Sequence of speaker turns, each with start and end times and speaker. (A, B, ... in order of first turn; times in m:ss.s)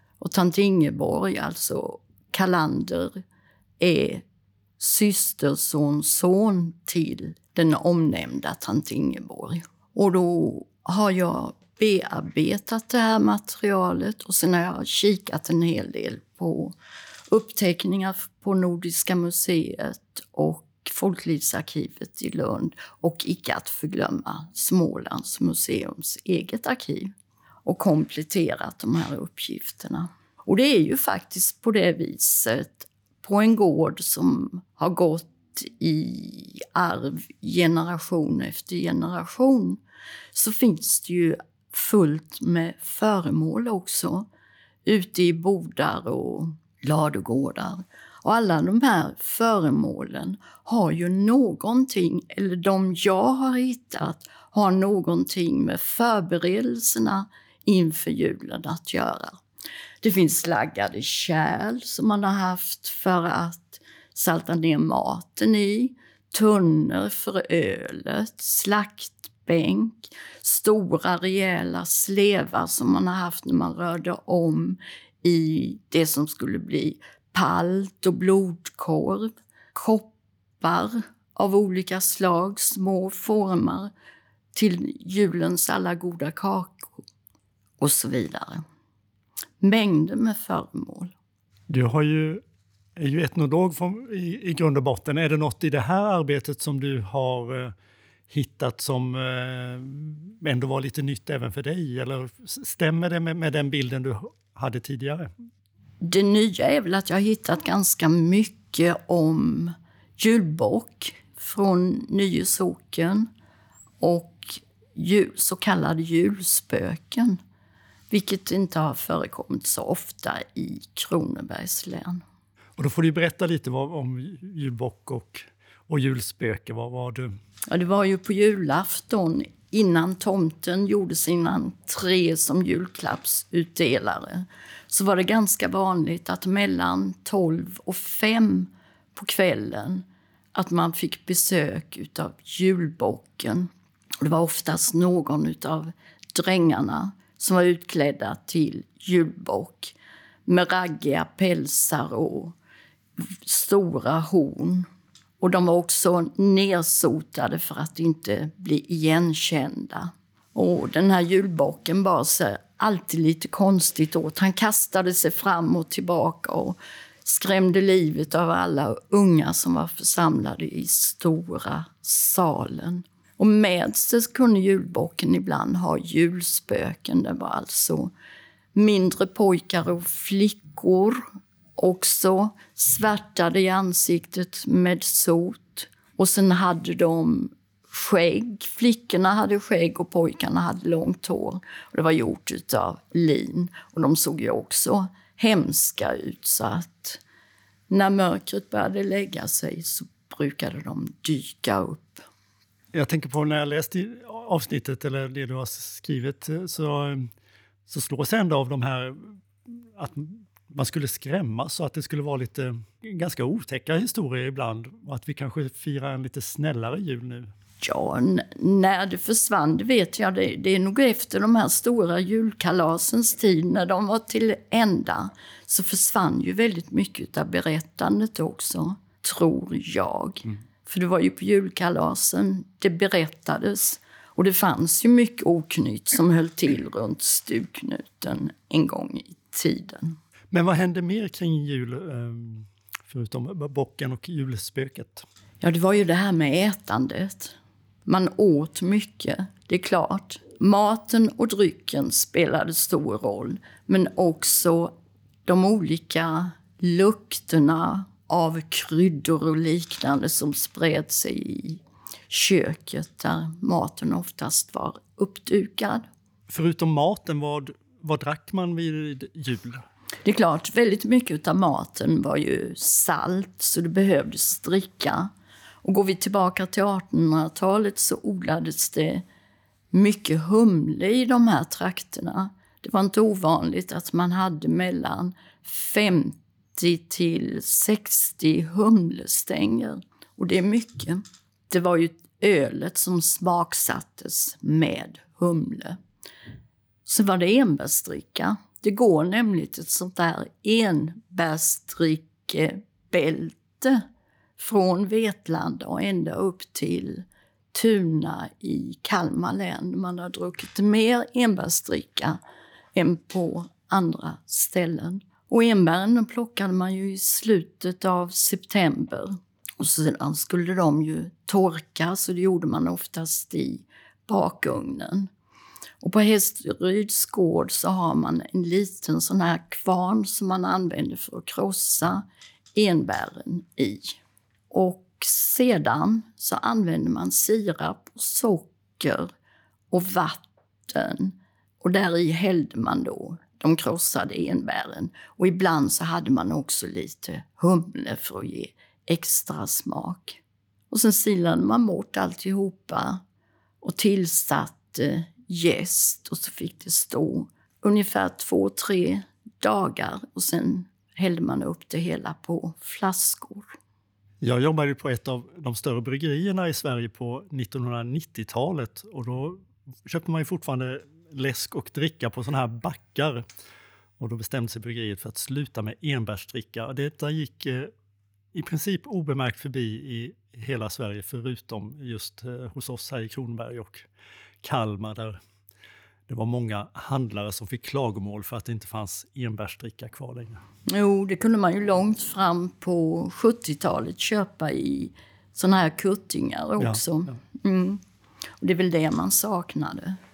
0:00.2-0:03.2 A
0:03.8-0:04.2 A
0:04.8-0:16.7 A
0:17.3-0:27.1 A
0:27.6-0:39.8 A
0:40.3-0:44.3 A
0:44.8-0:59.4 A
1:00.0-1:23.9 A
1:24.5-1:27.0 A
1:27.8-1:28.6 A
1:29.6-1:31.1 A
1:31.7-1:32.4 B
1:33.0-1:37.7 B
1:38.3-1:45.3 B
1:46.0-1:53.3 A
1:54.0-1:57.4 A
1:58.1-2:02.2 A
2:02.8-2:07.3 B
2:07.7-2:23.7 A
2:24.2-2:29.9 A
2:30.4-2:32.5 A
2:33.2-2:34.9 A
2:35.4-2:58.1 A
2:58.7-3:01.2 A
3:01.8-3:17.2 A
3:17.9-3:22.2 A
3:22.9-3:27.3 B
3:27.9-3:37.5 B
3:37.8-4:00.2 A
4:00.5-4:05.2 B
4:05.6-4:14.9 A
4:15.4-4:26.1 A
4:26.5-4:29.8 B
4:30.2-4:35.3 A
4:35.8-4:39.2 A
4:39.9-4:56.0 A
4:57.0-5:04.0 A
5:04.6-5:12.4 A
5:12.9-5:25.3 A
5:26.0-5:32.2 A
5:32.7-5:34.2 A
5:34.7-5:39.3 A
5:39.9-5:53.2 A
5:53.8-6:03.7 A
6:04.4-6:13.4 B
6:14.2-6:17.9 B
6:18.5-6:24.1 B
6:24.6-6:25.4 B
6:26.3-6:30.6 B
6:30.9-6:38.0 A
6:36.8-6:37.3 B
6:38.6-6:40.2 A